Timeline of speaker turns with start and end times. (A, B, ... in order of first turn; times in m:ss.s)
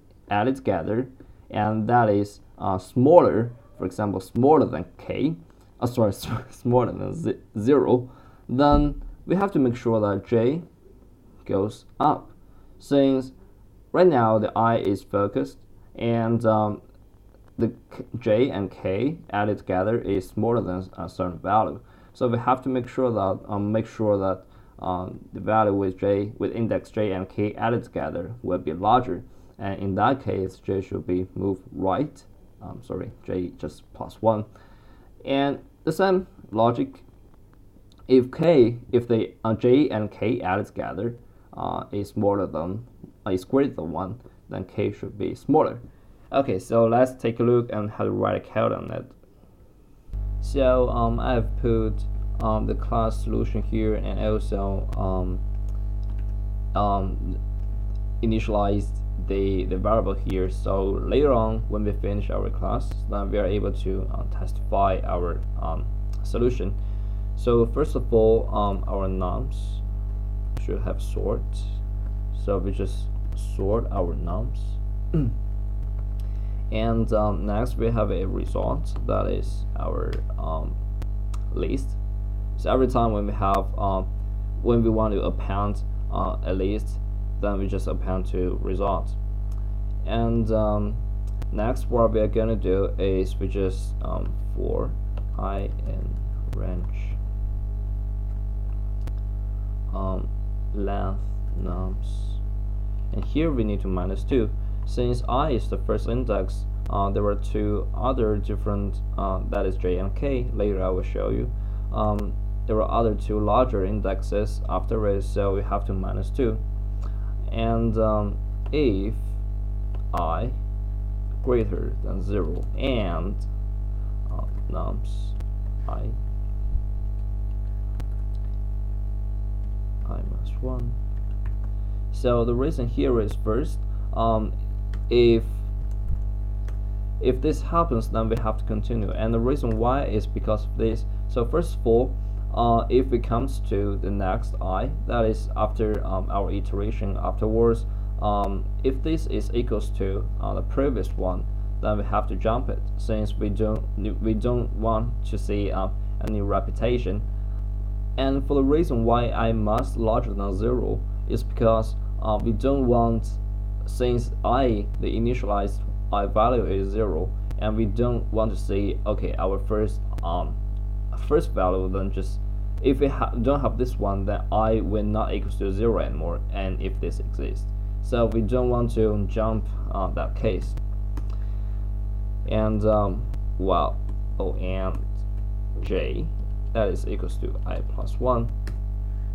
0:00.3-0:10.6 A
0:11.4-0:13.3 A
0:13.9-0:16.8 A
0:17.6-0:34.5 A
0:35.2-0:37.0 A
0:38.1-0:49.1 A
0:50.4-0:55.4 A
0:56.7-0:57.4 A
0:58.2-1:06.8 A
1:07.4-1:09.8 A
1:10.6-1:11.8 A
1:12.3-1:15.3 A
1:16.7-1:20.8 A
1:21.5-1:22.0 A
1:22.6-1:24.1 A
1:24.6-1:29.2 A
1:30.0-1:37.2 A
1:39.9-1:42.4 A
1:43.1-1:56.6 A
1:57.5-1:59.4 A
2:00.1-2:00.6 A
2:01.4-2:03.5 A
2:04.3-2:06.2 A
2:10.0-2:11.0 A
2:12.1-2:14.5 A
2:15.1-2:15.7 A
2:17.2-2:37.2 A
2:38.2-2:50.6 A
2:51.1-3:00.8 A
3:02.4-3:05.1 A
3:05.8-3:08.5 A